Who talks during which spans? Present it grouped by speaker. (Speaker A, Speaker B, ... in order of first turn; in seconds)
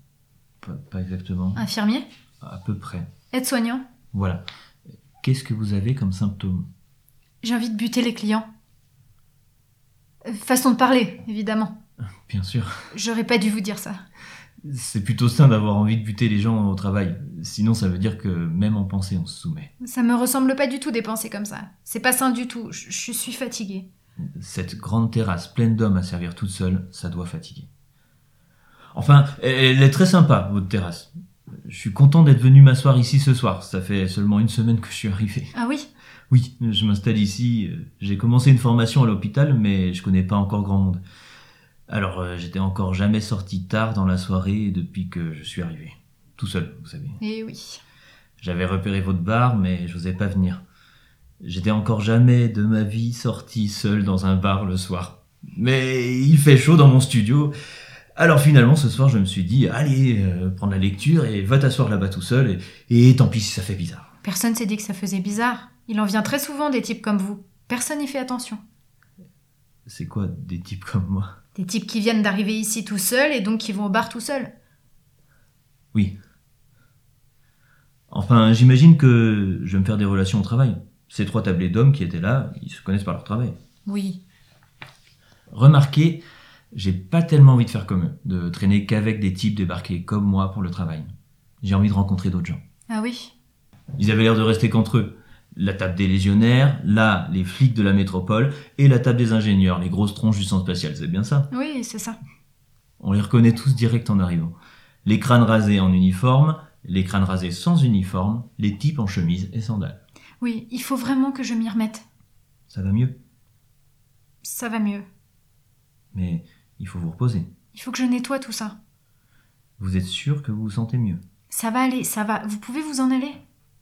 Speaker A: 0.6-1.6, 2.4-3.1, 4.1-4.4, 5.2-6.7, 12.3-12.7, 14.6-19.7, 24.3-27.7, 28.9-31.1, 31.6-35.5, 36.3-41.0, 41.9-47.2, 48.4-50.6, 51.4-57.5, 58.2-64.1, 69.9-71.3, 78.1-83.6, 85.5-91.1, 91.6-92.6, 94.0-101.5, 103.0-110.0, 112.7-113.2, 116.1-117.5, 119.8-121.2
Speaker B: 1.5-2.1, 3.3-3.8, 7.4-8.5, 10.2-11.8, 12.9-14.0, 19.8-23.9, 35.5-35.9, 47.2-47.8, 64.2-68.6, 71.5-74.5, 83.8-84.2, 92.9-93.3, 101.5-102.2, 110.4-112.0, 114.4-115.1, 117.7-118.8, 121.5-123.4